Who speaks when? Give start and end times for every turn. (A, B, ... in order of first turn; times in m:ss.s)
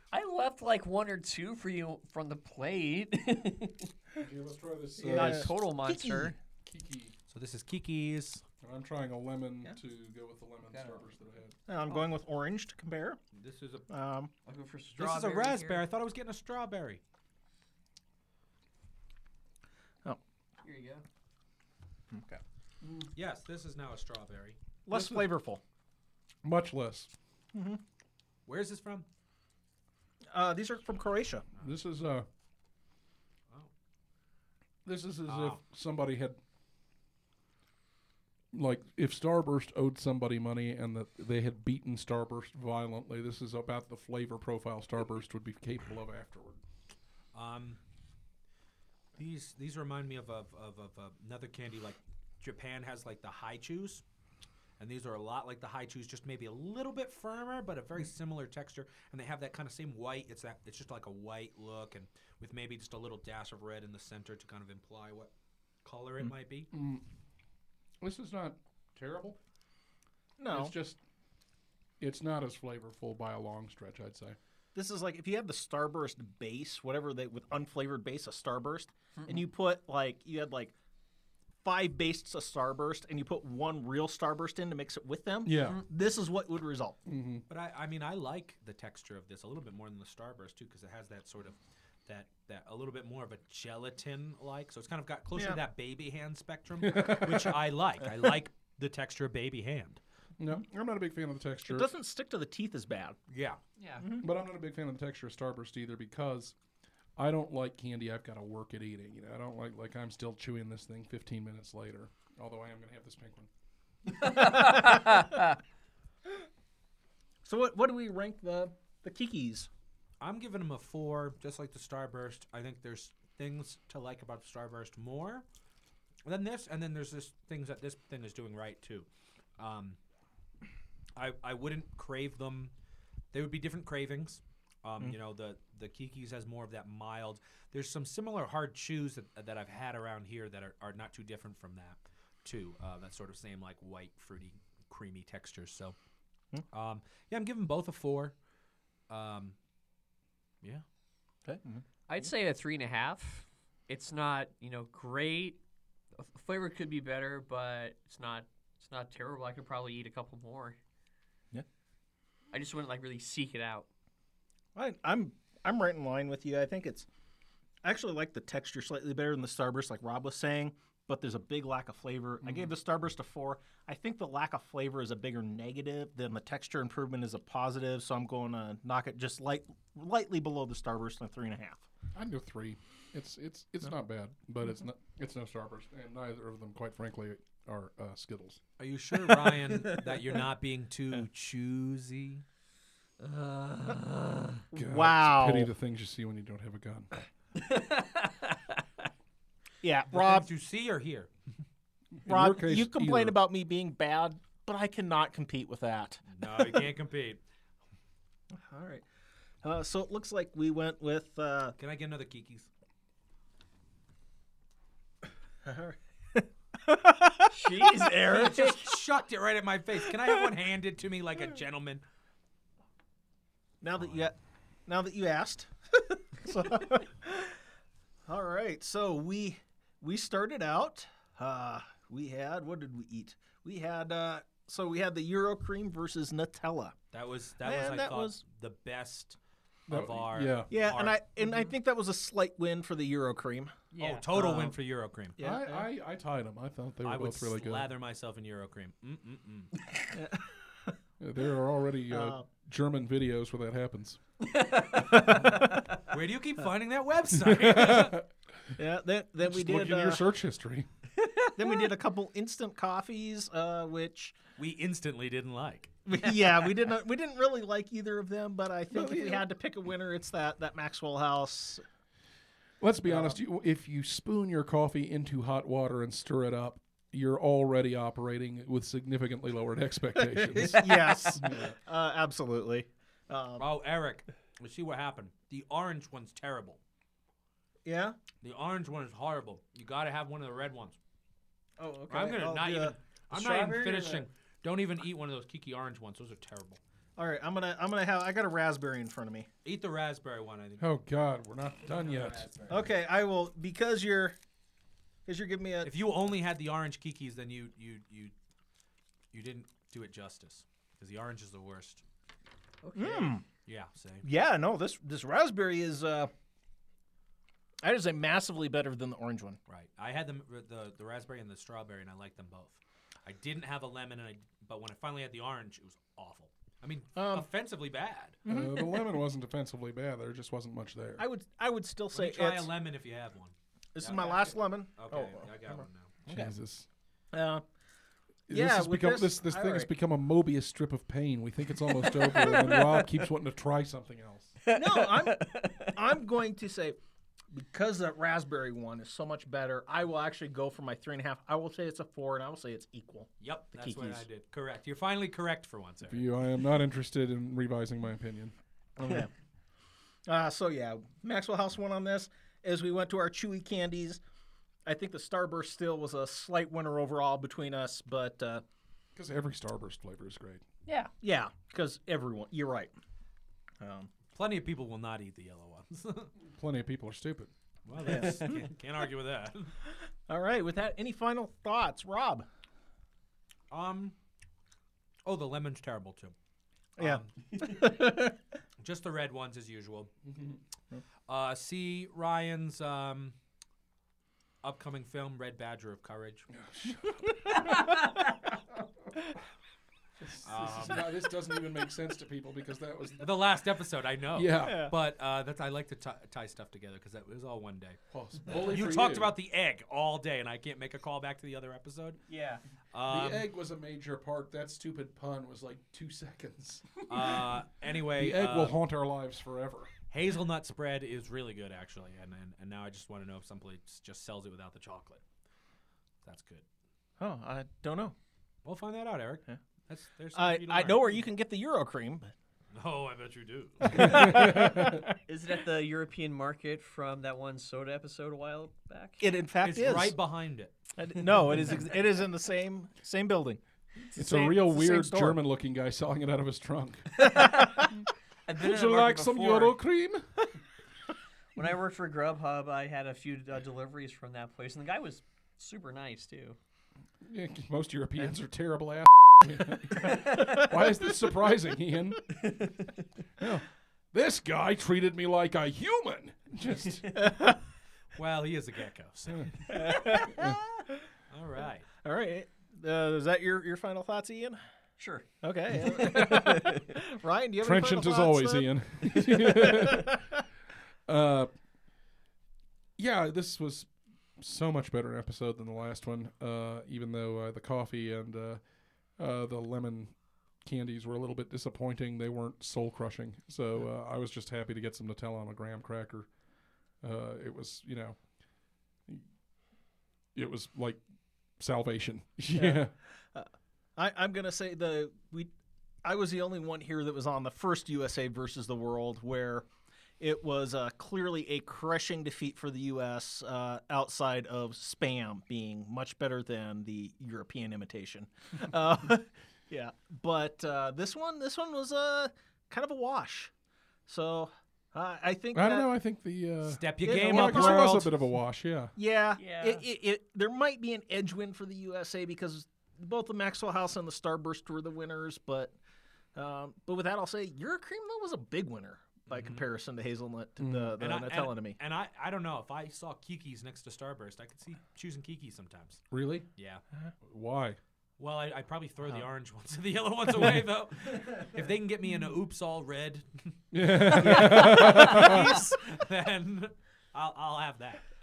0:00.1-0:03.9 A
0:04.2-0:05.5 B
0:05.0-0:06.4 C
0:05.1-0:06.4 A
0:06.6-0:07.2 B
0:07.3-0:08.4 D
0:08.6-0:11.6 B
0:10.7-0:11.0 A
0:11.7-0:13.2 C
0:13.3-0:13.9 D
0:13.9-0:14.3 C
0:14.5-0:15.8 A
0:15.0-0:17.0 D
0:20.6-0:21.0 A
0:22.1-0:22.4 C
0:23.2-0:24.6 D
0:24.9-0:25.6 C
0:24.9-0:25.3 B
0:26.4-0:27.1 B
0:27.5-0:27.8 C
0:28.5-0:29.1 D
0:30.3-0:31.4 C
0:31.6-0:32.3 B
0:34.8-0:36.4 B
0:35.3-0:35.6 D
0:38.5-0:46.6 B
0:47.3-0:47.8 D
0:49.2-0:54.0 D
0:54.8-1:05.3 D
1:05.8-1:06.7 D
1:06.7-1:07.1 B
1:08.0-1:09.4 B
1:10.4-1:10.8 C
1:10.5-1:11.0 B
1:12.0-1:14.4 B
1:14.8-1:20.7 C
1:21.6-1:27.0 C
1:25.4-1:25.8 B
1:27.1-1:27.4 B
1:27.5-1:40.0 D
1:35.4-1:35.6 C
1:36.8-1:37.6 B
1:40.4-1:41.9 B
1:41.7-1:43.2 C
1:43.3-1:43.6 D
1:43.8-1:44.1 A
1:44.0-1:44.3 C
1:44.2-1:46.6 B
1:47.2-1:53.5 B
1:54.2-1:55.3 C
1:54.3-1:55.4 A
1:57.4-1:59.7 C
2:00.2-2:05.4 D
2:06.2-2:09.1 D
2:09.6-2:10.0 D
2:11.2-2:12.7 D
2:13.3-2:26.0 D
2:26.7-2:28.3 D
2:29.1-2:29.6 D
2:31.5-2:31.8 C
2:32.1-2:35.6 A
2:36.2-2:40.8 A
2:42.5-2:43.9 A
2:44.8-2:47.1 C
2:47.8-3:01.8 C
2:52.4-2:52.7 B
3:02.2-3:08.6 B
3:08.8-3:12.4 D
3:09.2-3:10.1 A
3:13.2-3:14.6 A
3:14.7-3:15.7 C
3:14.8-3:17.1 B
3:17.6-3:18.8 A
3:19.8-3:20.5 C
3:20.1-3:21.3 D
3:22.2-3:23.4 B
3:22.3-3:26.4 C
3:26.4-3:27.4 D
3:28.6-3:29.0 C
3:29.6-3:31.8 C
3:31.8-3:32.7 D
3:35.6-3:38.4 C
3:37.5-3:39.0 A
3:38.2-3:42.0 D
3:43.8-3:44.4 C
3:44.0-3:44.2 D
3:44.9-3:47.6 C
3:48.3-3:57.0 C
3:57.1-4:01.2 D
3:57.6-3:58.4 C
3:59.9-4:00.7 B
4:00.7-4:04.7 C
4:03.9-4:04.3 A
4:04.0-4:05.4 D
4:05.4-4:05.9 C
4:05.4-4:07.9 B
4:07.0-4:09.7 D
4:10.1-4:11.0 C
4:11.2-4:14.2 B
4:12.1-4:12.5 C
4:14.4-4:15.9 A
4:15.1-4:15.4 B
4:16.1-4:18.2 D
4:17.4-4:18.3 B
4:18.8-4:20.2 C
4:19.4-4:20.9 B
4:21.2-4:21.9 A
4:21.6-4:24.4 C
4:24.6-4:25.9 D
4:26.1-4:31.8 C
4:28.9-4:29.4 B
4:32.8-4:41.8 B
4:33.0-4:33.4 C
4:40.2-4:43.7 C
4:43.6-4:46.8 D
4:47.9-4:48.2 C
4:48.4-4:51.0 D
4:51.8-4:54.3 C
4:52.1-4:56.8 D
4:57.2-4:59.5 C
4:59.6-5:00.9 D
5:00.8-5:02.5 B
5:01.9-5:02.9 D
5:02.7-5:04.4 C
5:05.3-5:06.0 C
5:05.8-5:08.3 D
5:09.3-5:12.0 D
5:12.8-5:13.3 A
5:12.9-5:13.4 C
5:13.4-5:14.3 D
5:14.2-5:16.3 C
5:17.8-5:19.6 C
5:19.7-5:28.4 D
5:27.2-5:27.5 C
5:28.5-5:29.1 C
5:28.5-5:31.2 B
5:31.2-5:32.7 C
5:32.1-5:36.2 D
5:34.0-5:36.5 C
5:36.3-5:36.9 B
5:37.3-5:37.6 C
5:38.5-5:44.6 B
5:38.5-5:39.9 C
5:42.1-5:43.2 A
5:44.6-5:46.0 A
5:44.7-5:47.0 C
5:47.5-5:54.2 C
5:53.4-5:56.3 D
5:56.1-5:58.6 B
5:59.0-5:59.3 C
6:00.3-6:04.2 C
6:04.9-6:08.6 C
6:09.2-6:10.6 B
6:11.2-6:12.9 C
6:13.8-6:14.1 C
6:14.3-6:16.3 D
6:16.6-6:17.5 B
6:17.9-6:19.7 D
6:18.0-6:18.6 C
6:20.3-6:22.5 C
6:23.7-6:24.2 D
6:25.3-6:26.4 D
6:27.0-6:27.3 D
6:27.0-6:28.4 C
6:28.8-6:30.1 D
6:30.3-6:30.6 B
6:31.3-6:33.4 D
6:34.6-6:36.5 D
6:36.5-6:37.7 B
6:37.4-6:38.0 C
6:40.2-6:43.4 B
6:40.4-6:41.1 D
6:43.2-6:48.0 D
6:44.3-6:44.8 B
6:44.6-6:44.9 C
6:48.1-6:49.3 B
6:48.6-6:52.2 D
6:52.3-6:52.6 A
6:52.9-6:53.4 D
6:53.1-6:57.6 B
6:57.1-6:58.8 D
6:58.1-6:59.9 B
7:00.1-7:05.2 D
7:06.2-7:06.6 D
7:07.2-7:08.2 C
7:08.6-7:11.2 D
7:10.3-7:12.3 C
7:12.7-7:14.3 D
7:13.9-7:15.2 C
7:14.0-7:15.0 B
7:15.3-7:19.2 A
7:19.2-7:20.2 C
7:19.6-7:20.8 D
7:21.0-7:23.6 C
7:24.1-7:25.4 C
7:24.2-7:27.3 B
7:27.2-7:27.9 A
7:28.5-7:29.8 A
7:28.6-7:30.3 B
7:31.6-7:36.6 A
7:37.2-7:42.5 B
7:40.0-7:40.6 A
7:42.5-7:42.9 A
7:43.4-7:47.1 B
7:47.1-7:47.6 C
7:48.1-7:49.8 D
7:49.7-7:50.6 C
7:51.3-7:51.9 D
7:52.0-7:54.6 C
7:55.0-7:55.3 A
7:55.4-8:00.4 C
7:55.8-7:56.8 A
7:56.2-7:56.6 B
7:57.6-8:00.2 B
8:01.1-8:01.5 B
8:03.0-8:08.6 B
8:09.2-8:16.3 B
8:17.0-8:18.2 B
8:20.4-8:21.0 B
8:21.6-8:22.9 B
8:22.5-8:25.5 C
8:26.0-8:29.7 C
8:30.2-8:43.5 C
8:44.1-8:45.9 C
8:45.5-8:48.9 B
8:46.7-8:48.1 D
8:47.0-8:47.9 C
8:49.0-8:55.7 C
8:49.4-8:49.8 A
8:56.4-9:01.8 C
8:59.3-8:59.6 D
9:00.6-9:01.0 B
9:01.0-9:06.0 D
9:06.1-9:06.5 B
9:06.6-9:06.8 D
9:07.3-9:07.8 B
9:08.2-9:18.0 D
9:13.7-9:15.6 B
9:14.2-9:15.4 C